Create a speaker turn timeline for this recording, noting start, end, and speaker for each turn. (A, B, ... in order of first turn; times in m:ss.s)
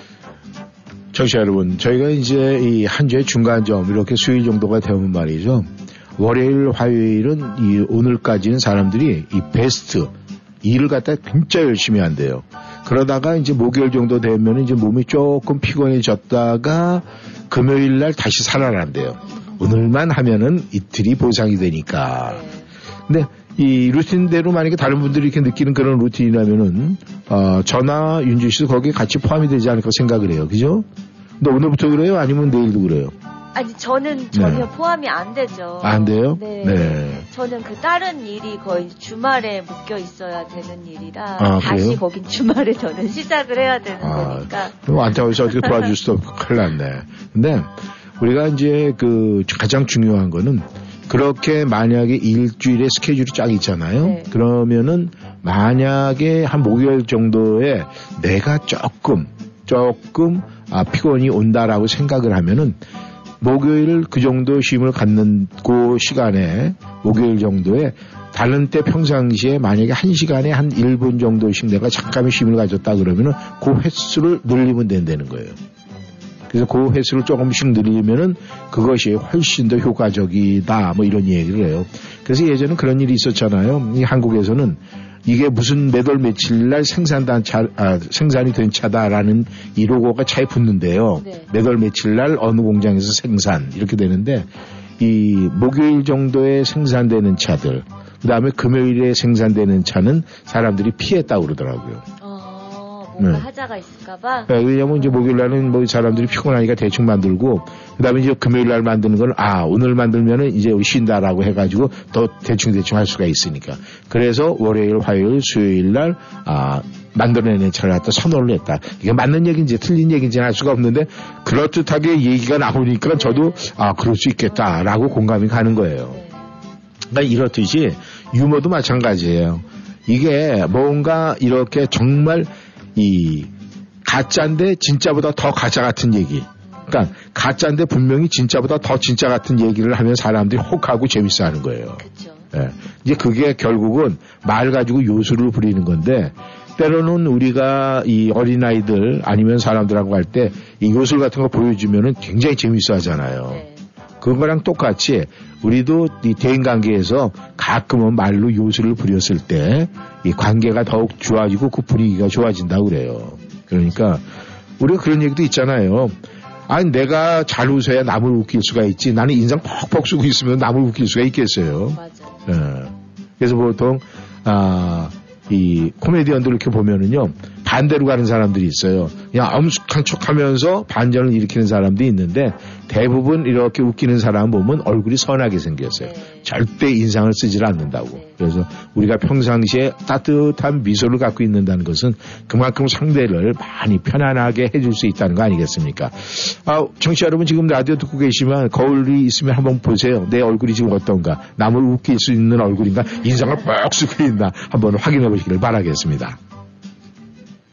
0:01.1-0:22.4 A
0:22.2-0:22.7 B
0:23.1-0:30.9 A
0:31.4-0:33.1 A
0:33.6-0:44.8 B
0:34.3-0:34.7 A
0:35.8-0:37.2 A
0:41.4-0:42.0 A
0:44.0-1:02.8 A
0:45.5-0:45.9 B
0:54.0-0:54.3 B
1:03.4-1:15.6 A
1:16.5-1:42.0 A
1:31.2-1:31.5 B
1:42.2-1:45.2 B
1:43.2-1:43.4 A
1:44.5-2:06.2 A
2:03.1-2:03.7 B
2:06.1-2:06.4 B
2:07.1-2:13.5 A
2:14.0-2:33.6 A
2:22.0-2:22.5 B
2:33.5-2:33.8 B
2:34.2-2:44.2 A
2:44.8-3:26.4 A
2:52.0-2:52.4 B
2:59.0-2:59.3 B
3:06.0-3:06.4 B